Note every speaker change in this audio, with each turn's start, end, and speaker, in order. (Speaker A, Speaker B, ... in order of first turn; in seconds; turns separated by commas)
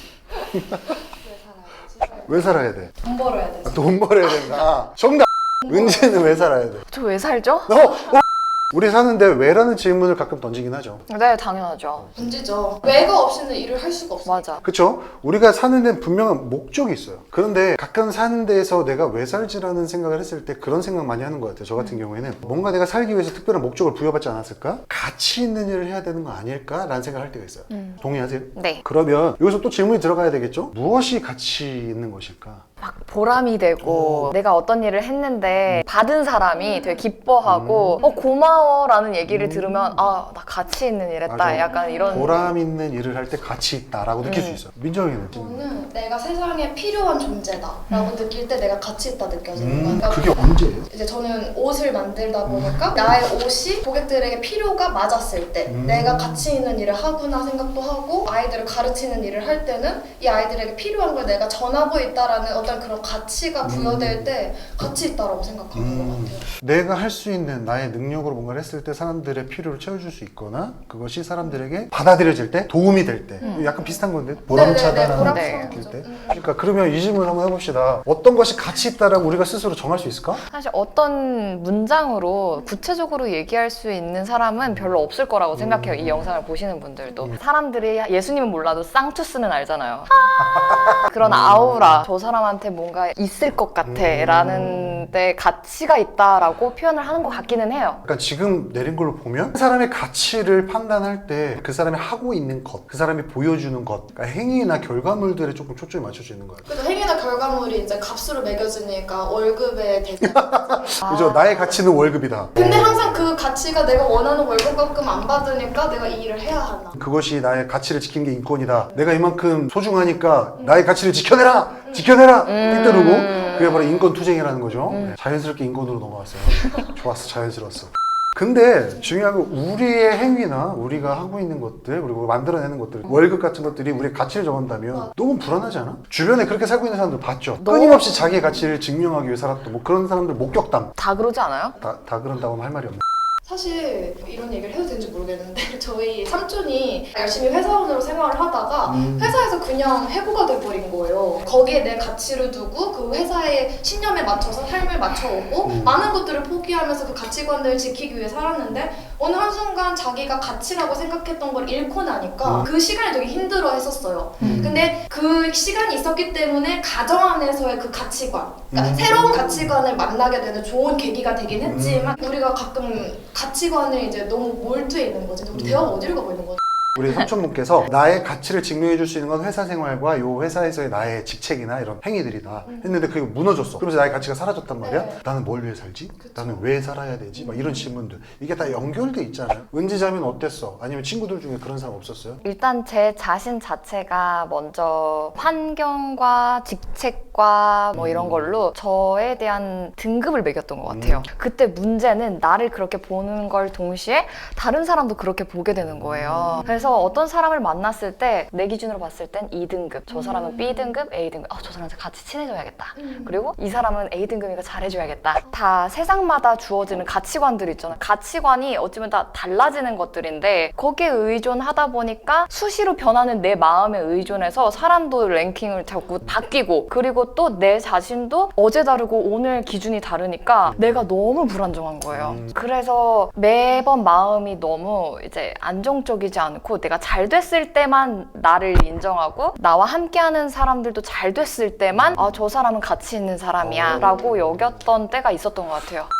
Speaker A: 0.5-1.0, Speaker B: 1.1-2.4, Speaker A: 2.2-3.0, Speaker B: 3.0-4.0, Speaker A: 3.7-6.9, Speaker C: 6.9-7.8, Speaker A: 7.7-11.1, Speaker C: 11.1-12.1, Speaker B: 12.2-14.5, Speaker C: 14.2-14.6, Speaker A: 14.6-32.7, Speaker C: 27.7-28.0, Speaker C: 28.5-28.8, Speaker C: 32.8-42.5, Speaker A: 33.8-34.3, Speaker B: 36.5-37.1, Speaker A: 37.4-38.0, Speaker B: 38.0-38.2, Speaker A: 39.2-40.1, Speaker A: 41.3-45.6, Speaker B: 41.6-42.5, Speaker C: 44.2-44.6, Speaker B: 45.3-66.5, Speaker A: 49.6-50.9, Speaker A: 52.5-53.1, Speaker A: 55.7-56.5, Speaker A: 63.6-64.3, Speaker A: 65.7-80.4, Speaker B: 73.4-73.7, Speaker C: 73.4-74.0, Speaker B: 74.5-76.5, Speaker C: 75.2-75.8, Speaker C: 80.5-90.1, Speaker A: 85.5-86.3, Speaker A: 90.4-92.1, Speaker C: 91.0-98.0, Speaker A: 93.8-95.1, Speaker A: 98.0-106.7, Speaker B: 106.7-111.0, Speaker A: 110.2-113.2, Speaker C: 111.0-111.5, Speaker B: 112.6-117.0, Speaker A: 117.0-140.9, Speaker B: 120.6-120.8, Speaker B: 121.8-122.1, Speaker C: 122.5-124.0, Speaker B: 123.2-123.8, Speaker C: 124.9-125.2, Speaker C: 137.6-138.2, Speaker C: 141.0-141.8, Speaker A: 141.8-143.0, Speaker B: 143.4-176.6, Speaker A: 148.9-149.4, Speaker A: 155.6-156.0, Speaker A: 162.4-162.7, Speaker A: 164.4-164.8, Speaker C: 164.4-164.7, Speaker A: 168.7-169.8, Speaker A: 171.5-172.2, Speaker A: 175.5-175.9, Speaker A: 177.0-192.4, Speaker B: 182.7-183.0, Speaker B: 184.8-185.2, Speaker B: 186.2-186.7, Speaker B: 187.4-187.9, Speaker C: 192.4-246.1, Speaker A: 197.9-198.6, Speaker A: 200.9-201.3, Speaker A: 205.8-206.6, Speaker B: 206.6-207.2, Speaker B: 210.1-210.9, Speaker B: 213.0-213.5, Speaker A: 230.7-231.1, Speaker A: 232.1-232.5, Speaker A: 241.9-242.3, Speaker A: 243.6-244.8